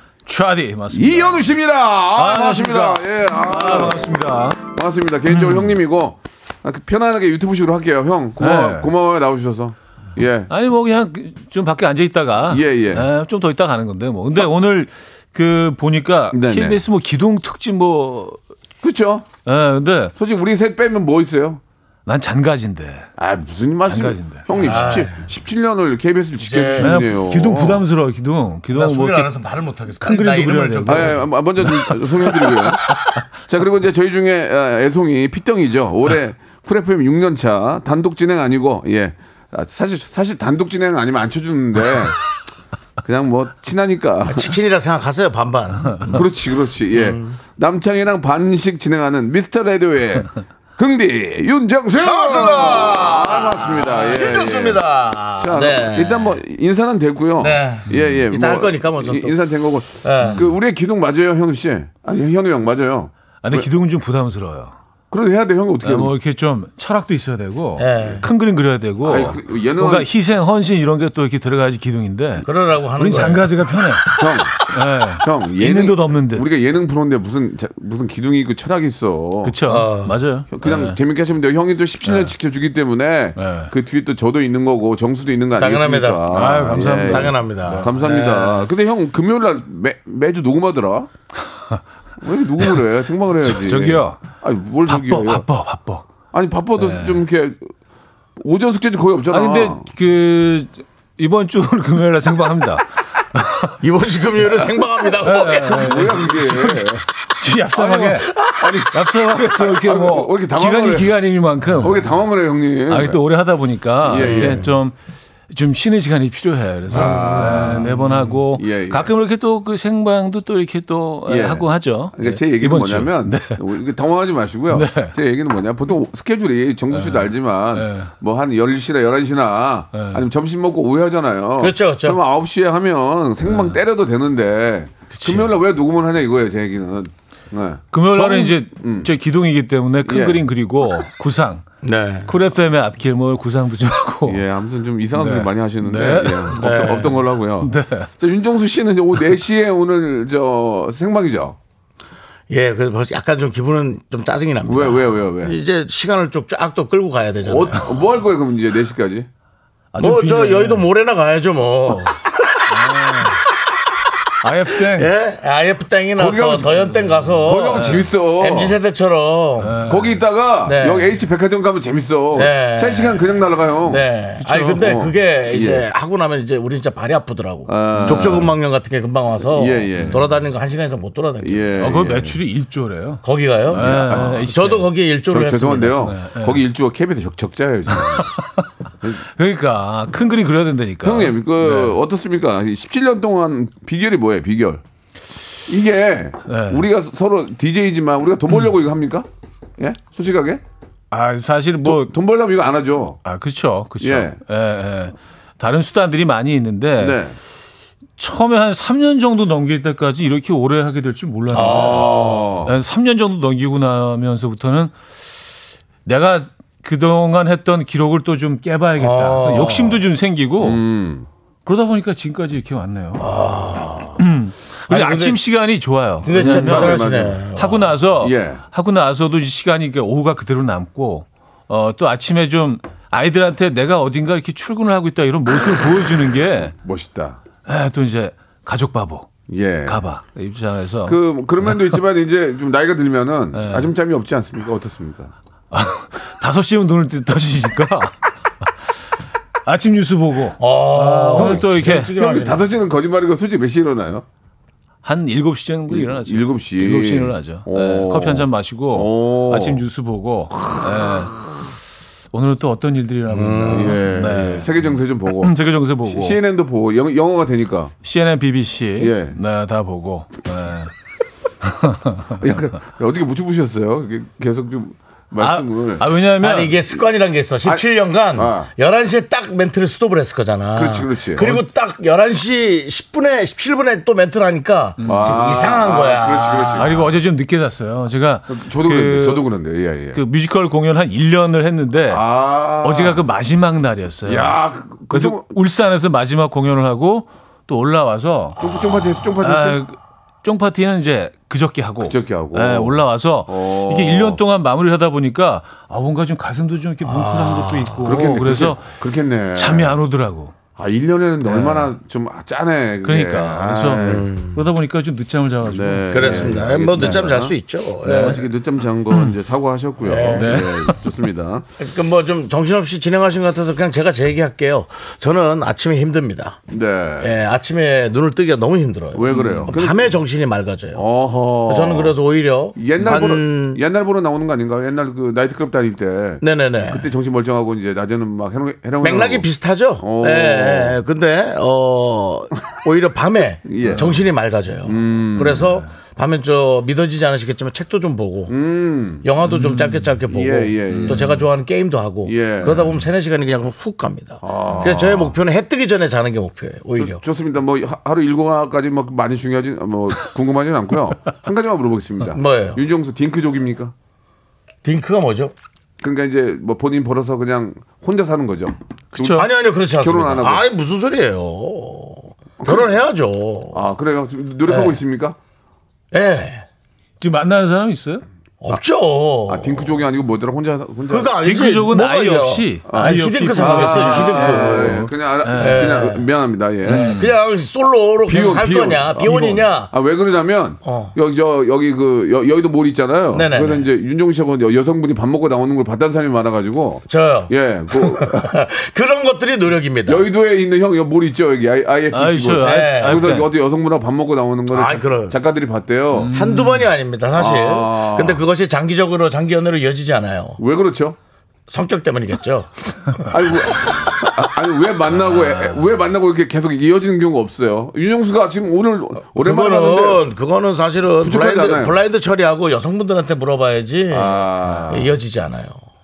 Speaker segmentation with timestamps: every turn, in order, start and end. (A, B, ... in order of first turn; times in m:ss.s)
0:00.2-0:01.5 A
0:00.9-0:10.5 B
0:02.2-0:04.6 A
0:05.3-0:05.7 A
0:08.4-0:08.9 A
0:10.5-0:18.4 A
0:12.5-0:13.1 B
0:16.3-0:16.8 B
0:18.8-0:19.3 B
0:19.4-0:20.1 A
0:20.2-0:21.6 B
0:22.0-0:23.1 A
0:23.2-0:27.8 B
0:23.8-0:24.7 A
0:24.6-0:25.2 C
0:26.3-0:27.0 C
0:26.8-0:29.3 A
0:28.7-0:31.2 C
0:30.0-0:33.2 A
0:30.8-0:42.2 B
0:43.0-0:44.6 B
0:44.2-0:46.2 C
0:46.1-0:54.8 B
0:46.9-0:47.4 C
0:52.0-0:56.4 C
0:55.4-1:03.7 B
0:57.4-0:59.4 C
1:00.0-1:00.5 C
1:03.4-1:04.8 A
1:05.1-1:06.1 B
1:05.8-1:16.4 A
1:07.8-1:08.2 C
1:09.0-1:10.1 B
1:12.4-1:13.5 C
1:14.2-1:14.6 B
1:15.2-1:19.6 B
1:19.4-1:21.0 A
1:19.6-1:20.2 C
1:20.5-1:31.1 B
1:22.0-1:22.3 A
1:23.4-1:23.7 A
1:25.5-1:28.7 C
1:26.3-1:27.9 A
1:32.2-1:35.4 B
1:33.4-1:34.2 A
1:34.9-1:36.0 A
1:36.3-1:37.7 B
1:36.8-1:37.2 A
1:38.4-1:39.8 B
1:39.3-1:43.8 A
1:43.8-1:45.9 C
1:45.2-1:47.0 B
1:45.2-1:48.3 A
1:47.7-1:51.2 B
1:48.9-1:52.0 A
1:51.7-1:53.2 B
1:52.9-1:54.9 A
1:54.0-1:54.6 B
1:54.1-1:54.8 C
1:55.5-2:03.6 A
1:56.9-1:57.9 B
1:56.9-1:58.3 C
1:58.5-1:59.1 B
2:01.3-2:19.1 B
2:04.7-2:05.1 A
2:06.9-2:08.1 A
2:09.9-2:10.2 A
2:11.6-2:12.2 C
2:13.4-2:13.8 A
2:15.2-2:15.5 A
2:17.9-2:21.6 A
2:20.0-2:20.4 B
2:21.8-2:22.3 C
2:22.2-2:24.4 A
2:24.2-2:31.6 B
2:25.1-2:26.7 A
2:26.5-2:27.2 C
2:27.6-2:28.1 A
2:32.5-2:38.0 C
2:34.7-2:35.6 B
2:37.4-2:39.3 B
2:39.9-2:40.8 A
2:40.0-2:43.4 C
2:42.6-2:43.4 A
2:44.4-2:45.1 A
2:44.7-2:49.8 C
2:46.2-2:48.8 B
2:47.7-2:48.0 A
2:49.6-2:50.2 A
2:49.9-2:54.0 B
2:50.6-2:51.1 C
2:52.3-3:01.9 C
2:54.4-2:54.8 A
2:54.8-2:55.8 B
2:57.7-2:58.5 B
2:57.9-2:58.4 A
2:59.5-3:00.3 B
3:01.4-3:02.4 B
3:01.8-3:04.9 A
3:03.2-3:06.1 C
3:03.7-3:04.4 B
3:05.3-3:08.3 B
3:06.0-3:06.6 A
3:07.9-3:11.9 A
3:11.0-3:14.8 B
3:15.7-3:19.3 B
3:16.4-3:16.8 A
3:19.8-3:20.6 B
3:21.1-3:22.1 A
3:21.8-3:23.2 B
3:23.2-3:27.2 A
3:24.0-3:24.4 B
3:27.0-3:27.4 B
3:28.2-3:35.0 A
3:31.5-3:32.6 C
3:31.5-3:32.7 B
3:36.0-3:40.8 A
3:39.0-3:40.0 C
3:40.6-3:41.3 B
3:41.6-3:43.4 A
3:43.2-3:44.2 C
3:44.2-3:56.7 A
3:44.9-3:45.4 C
3:46.2-3:48.0 C
3:46.3-3:47.4 B
3:48.2-3:48.6 B
3:56.7-3:57.4 B
3:57.6-3:59.3 A
3:59.5-4:00.0 B
3:59.8-4:02.0 A
4:01.0-4:05.3 B
4:03.5-4:03.9 A
4:05.7-4:08.1 A
4:09.6-4:12.3 A
4:10.6-4:12.7 C
4:11.3-4:14.2 B
4:15.0-4:21.3 A
4:15.9-4:19.8 B
4:22.3-4:24.7 A
4:23.3-4:24.0 C
4:23.7-4:27.9 B
4:25.4-4:26.4 A
4:28.0-4:30.9 A
4:29.0-4:29.4 B
4:31.6-4:32.6 A
4:32.4-4:36.1 B
4:35.4-4:36.8 A
4:36.4-4:47.0 C
4:37.6-4:38.7 B
4:40.7-4:41.5 B
4:41.4-4:41.6 A
4:45.0-4:45.4 A
4:45.0-4:47.0 B
4:46.8-4:49.4 A
4:48.5-4:50.2 B
4:50.1-4:52.2 A
4:52.1-4:53.2 B
4:52.8-4:54.6 A
4:54.3-4:55.5 B
4:55.1-5:08.9 A
4:58.6-4:59.8 B
5:02.0-5:04.4 B
5:07.0-5:08.1 C
5:08.0-5:10.0 B
5:09.5-5:10.5 A
5:10.8-5:14.3 B
5:11.4-5:11.9 A
5:13.0-5:17.1 A
5:13.9-5:14.6 C
5:15.7-5:17.5 B
5:16.1-5:18.4 C
5:18.0-5:21.7 B
5:20.0-5:20.6 C
5:20.3-5:21.0 A
5:21.8-5:26.6 C
5:26.7-5:27.3 B
5:27.2-5:31.0 C
5:29.1-5:30.2 B
5:29.3-5:29.7 A
5:30.9-5:32.2 B
5:31.6-5:33.8 C
5:32.8-5:39.5 B
5:36.4-5:37.1 C
5:39.0-5:48.5 C
5:40.0-5:41.0 B
5:43.6-5:44.2 B
5:44.8-5:45.8 B
5:48.5-5:49.3 B
5:49.2-5:57.2 C
5:49.4-5:50.1 A
5:50.3-5:51.3 B
5:50.9-5:51.4 A
5:52.2-5:53.0 B
5:54.4-5:55.3 B
5:57.0-6:03.9 B
6:02.3-6:02.8 C
6:04.8-6:05.5 C
6:06.0-6:10.6 B
6:09.1-6:09.4 A
6:09.3-6:13.8 C
6:12.6-6:12.9 B
6:13.7-6:15.4 B
6:14.7-6:15.0 C
6:16.1-6:16.7 C
6:17.2-6:18.2 A
6:18.6-6:20.0 C
6:19.5-6:21.3 B
6:21.1-6:26.3 C
6:21.4-6:26.1 A
6:22.9-6:27.1 B
6:26.8-6:27.3 A
6:26.8-6:29.9 C
6:28.2-6:38.5 B
6:30.8-6:31.1 C
6:33.3-6:33.9 C
6:37.1-6:40.2 C
6:40.0-6:46.3 B
6:42.1-6:43.5 A
6:42.6-6:43.3 C
6:44.7-6:45.4 C
6:46.1-6:46.9 A
6:46.3-6:50.6 C
6:47.3-6:48.4 B
6:50.6-6:51.2 B
6:51.7-6:53.9 C
6:53.3-7:00.2 B
6:59.3-7:05.8 C
7:01.2-7:02.0 B
7:04.1-7:05.1 B